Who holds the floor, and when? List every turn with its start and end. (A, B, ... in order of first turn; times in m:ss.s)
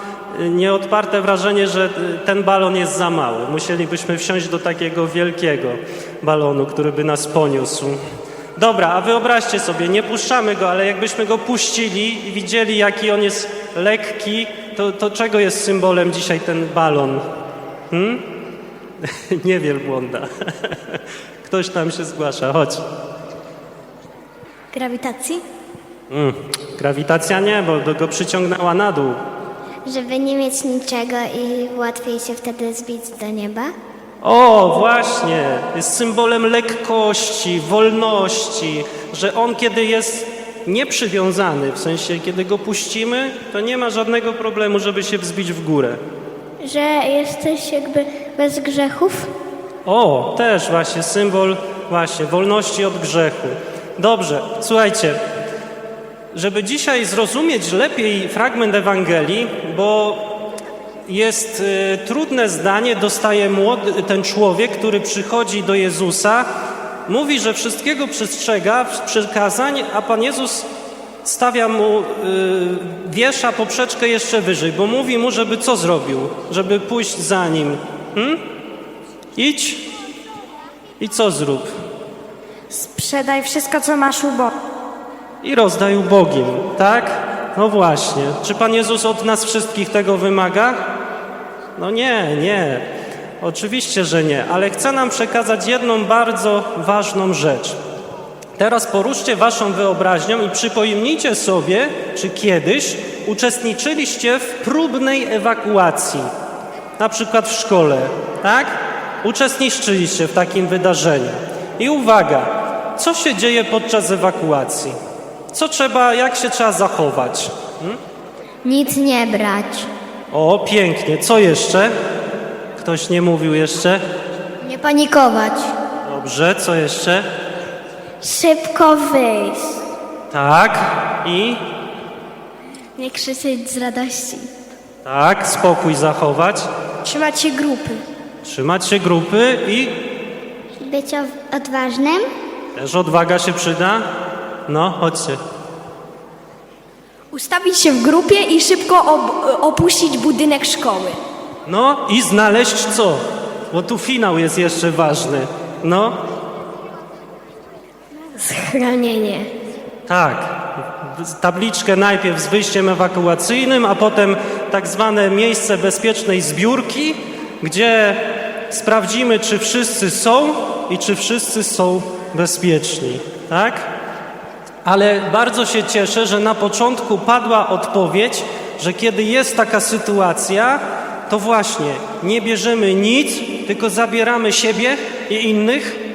0:00.3-0:08.0 A
0:08.6-0:17.2 A
0:17.9-0:18.2 A
0:19.0-0:22.8 A
0:24.7-0:25.4 B
0:26.1-0:29.2 A
0:29.9-0:33.7 C
0:34.2-0:46.0 A
0:46.6-0:49.3 B
0:49.8-0:55.2 A
0:56.3-1:00.3 A
1:01.1-1:06.5 A
1:07.1-1:10.7 A
1:11.2-1:18.4 A
1:19.4-1:19.9 A
1:21.0-1:21.7 A
1:22.7-1:24.5 B
1:25.4-1:30.9 A
1:31.8-1:32.9 A
1:33.4-1:37.8 A
1:38.6-1:46.3 A
1:47.0-1:55.0 A
1:55.5-1:58.0 A
1:58.6-1:59.9 C
2:00.3-2:01.9 A
2:02.8-2:04.0 A
2:04.6-2:05.7 C
2:06.0-2:07.3 A
2:08.2-2:09.8 B
2:10.3-2:11.6 A
2:13.0-2:14.5 B
2:15.0-2:16.7 A
2:17.0-2:18.0 B
2:18.4-2:20.1 A
2:20.8-2:22.3 C
2:22.8-2:24.1 A
2:24.7-2:25.4 A
2:27.3-2:31.2 B
2:31.7-2:36.2 A
2:38.6-2:39.4 C
2:40.1-2:53.9 A
2:54.8-3:06.0 A